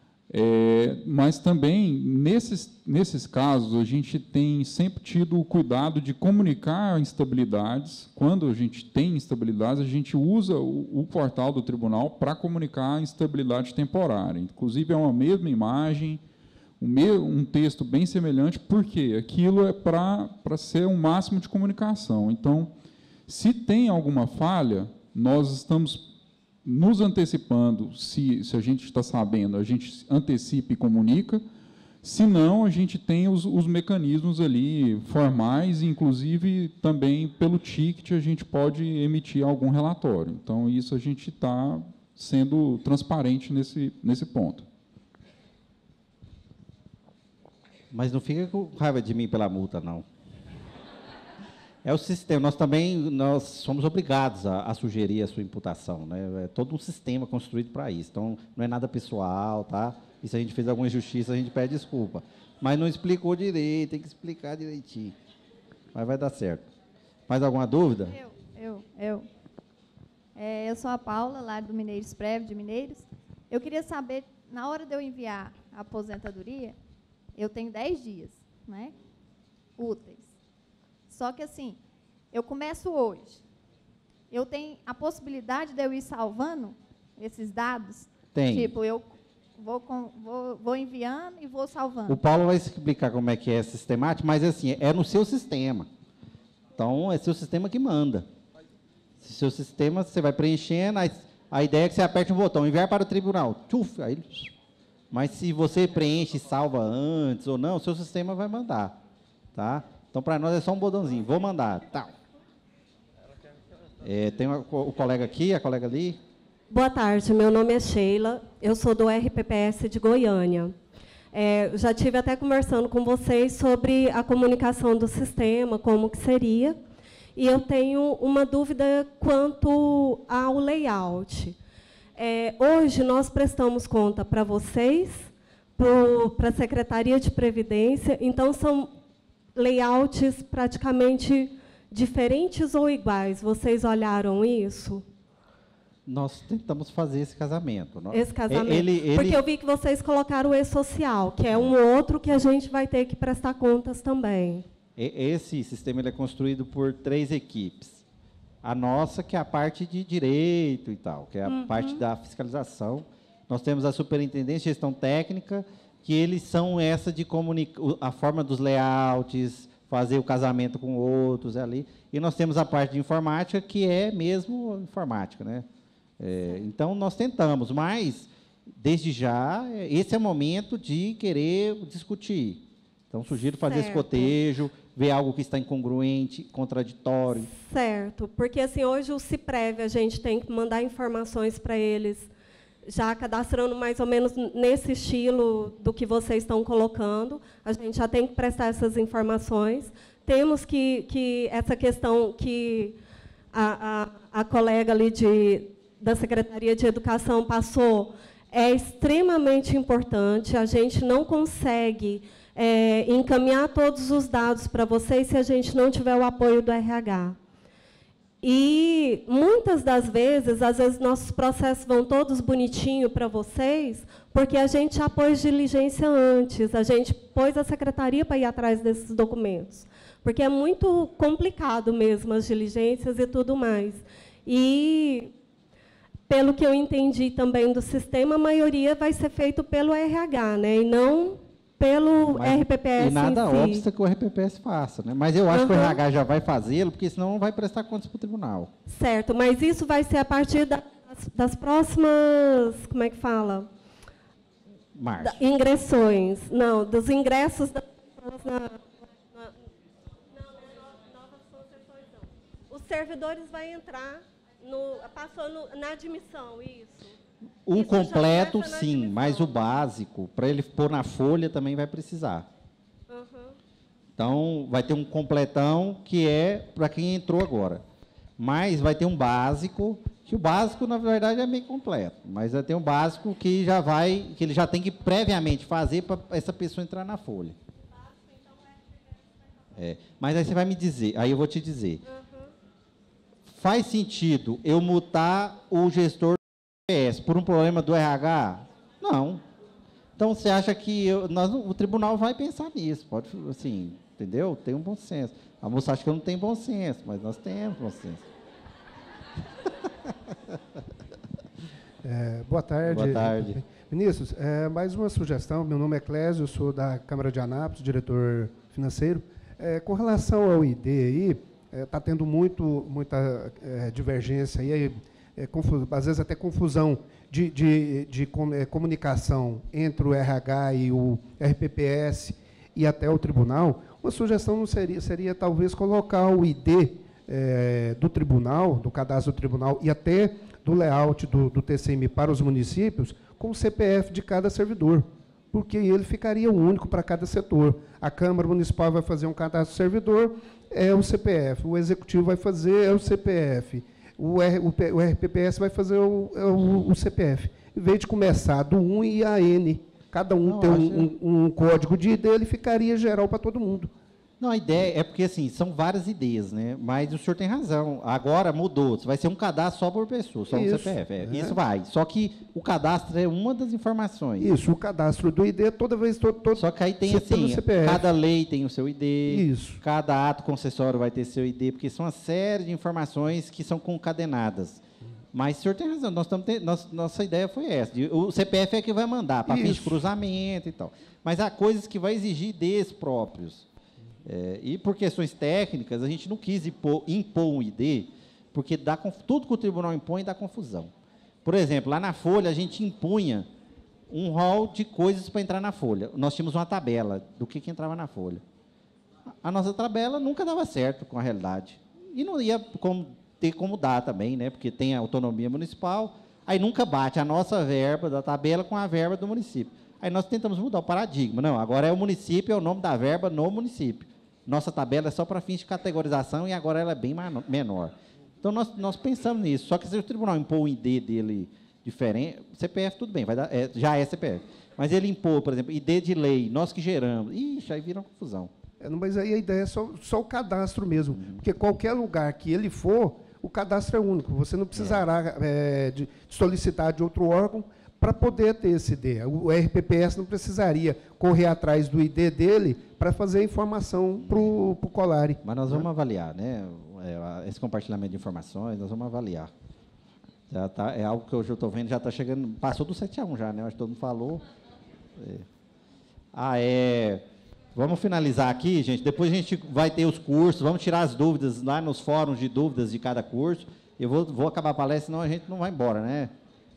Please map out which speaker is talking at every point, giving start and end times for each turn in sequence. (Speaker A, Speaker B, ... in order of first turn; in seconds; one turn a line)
Speaker A: 0.3-16.2
Speaker A: 16.8-22.7
Speaker A: 23.3-26.1
Speaker A: 26.6-31.5
Speaker A: 32.0-44.7
Speaker B: 47.9-50.0
Speaker B: 51.9-65.2
Speaker B: 65.9-66.7
Speaker B: 67.3-68.2
Speaker C: 68.1-69.3
Speaker C: 70.4-76.8
Speaker C: 77.4-78.9
Speaker C: 79.8-80.3
Speaker C: 81.1-81.8
Speaker C: 82.3-83.4
Speaker C: 84.3-92.2
Speaker B: 88.3-88.7
Speaker B: 92.1-95.9
Speaker B: 96.8-98.3
Speaker B: 99.2-104.5
Speaker B: 105.1-109.0
Speaker B: 109.5-112.1
Speaker B: 114.0-116.2
Speaker D: 116.7-120.8
Speaker D: 121.3-126.8
Speaker D: 127.4-131.6
Speaker D: 132.2-138.9
Speaker D: 139.6-145.0
Speaker B: 146.1-149.4
Speaker D: 148.1-154.7
Speaker B: 155.0-158.0
Speaker B: 158.6-175.7
Speaker D: 161.4-162.0
Speaker B: 176.2-187.5
Speaker D: 183.6-184.4
Speaker D: 187.4-192.3
Speaker D: 192.8-203.0
Speaker D: 203.5-217.4
Speaker D: 218.4-235.3
Speaker D: 236.3-243.8
Speaker B: 242.3-248.7
Speaker D: 245.5-246.0
Speaker D: 248.9-253.7
Speaker B: 254.9-255.4
Speaker D: 255.2-259.5
Speaker D: 260.3-267.1
Speaker B: 267.7-272.5
Speaker D: 267.7-269.6
Speaker D: 273.1-273.6
Speaker B: 274.2-277.8
Speaker B: 278.4-287.6
Speaker B: 289.8-292.0
Speaker D: 292.1-292.5
Speaker B: 293.5-299.4
Speaker B: 300.2-308.2
Speaker E: 312.0-363.9
Speaker B: 312.9-313.6
Speaker B: 360.4-361.1
Speaker B: 364.4-374.5
Speaker E: 370.5-371.6
Speaker E: 374.4-378.1
Speaker B: 376.6-393.7
Speaker E: 379.3-379.8
Speaker E: 389.5-390.0
Speaker B: 394.2-400.9
Speaker B: 401.4-403.5
Speaker B: 404.1-408.4
Speaker B: 409.4-438.5
Speaker E: 438.8-455.9
Speaker B: 441.1-441.4
Speaker B: 444.7-445.0
Speaker B: 454.2-454.5
Speaker B: 455.4-459.5
Speaker B: 460.5-464.4
Speaker B: 465.2-465.5
Speaker B: 466.3-467.2
Speaker B: 467.8-476.3